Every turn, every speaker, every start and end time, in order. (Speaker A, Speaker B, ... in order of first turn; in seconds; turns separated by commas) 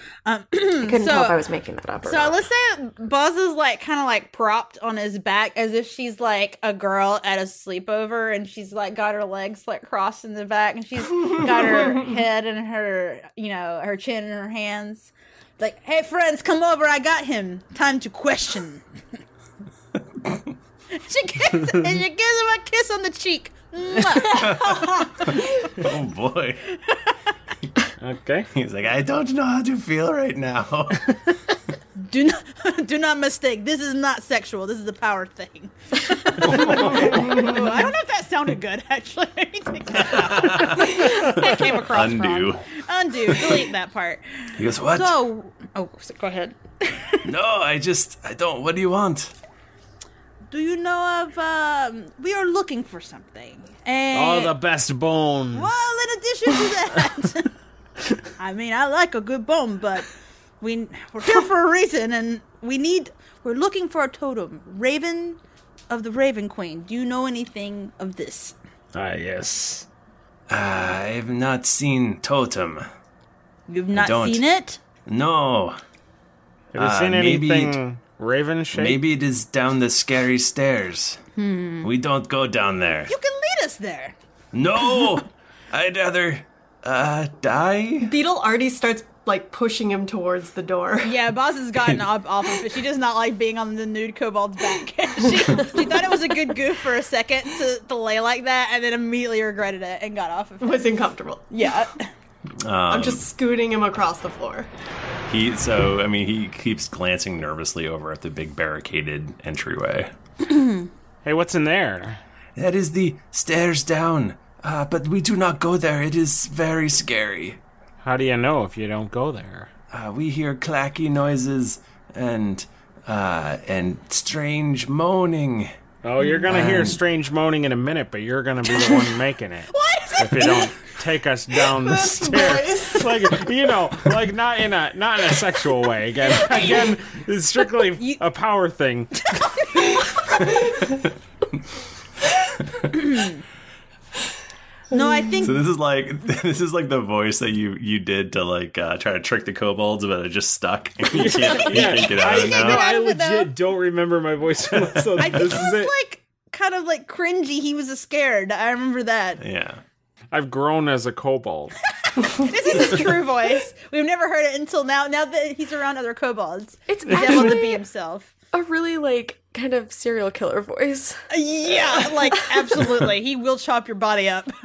Speaker A: 0.2-1.4, Speaker B: 0.8-2.4, Speaker A: 2.0-18.8, Speaker A: 20.9-25.7, Speaker C: 24.1-26.6, Speaker D: 28.0-28.5, Speaker C: 28.5-31.1, Speaker A: 32.0-47.2, Speaker C: 36.4-37.5, Speaker C: 40.0-42.6, Speaker C: 43.2-43.7, Speaker C: 44.6-45.1, Speaker C: 47.2-49.3, Speaker A: 50.5-54.5, Speaker D: 54.1-55.7, Speaker A: 55.5-57.5, Speaker A: 58.4-60.1, Speaker A: 60.6-65.4, Speaker A: 65.9-68.5, Speaker D: 68.9-69.9, Speaker C: 70.5-72.8, Speaker A: 73.7-74.8, Speaker C: 73.9-74.4, Speaker C: 75.1-75.8, Speaker D: 76.7-79.0, Speaker C: 76.8-77.8, Speaker C: 78.7-81.2, Speaker A: 81.3-81.9, Speaker C: 81.8-83.1, Speaker A: 83.1-84.1, Speaker C: 84.5-88.1, Speaker E: 88.0-91.2, Speaker A: 91.0-100.8, Speaker E: 100.6-101.5, Speaker A: 101.5-102.0, Speaker C: 102.6-103.3, Speaker E: 102.9-104.7, Speaker C: 105.3-110.1, Speaker A: 110.5-110.8, Speaker D: 111.2-112.2, Speaker C: 112.5-117.6, Speaker D: 118.0-119.7, Speaker C: 119.9-125.7, Speaker D: 126.0-139.3, Speaker C: 126.5-127.0, Speaker A: 129.7-130.7, Speaker E: 131.8-133.2, Speaker A: 136.3-136.9, Speaker A: 139.3-140.4, Speaker A: 142.9-143.4, Speaker A: 144.9-145.6, Speaker C: 145.4-152.9, Speaker D: 151.1-155.9, Speaker A: 152.2-153.5, Speaker C: 155.0-155.4, Speaker A: 155.2-159.4, Speaker C: 159.4-159.8, Speaker D: 160.3-161.7, Speaker A: 162.2-168.3, Speaker B: 166.9-167.8, Speaker B: 168.5-171.2, Speaker A: 171.3-174.5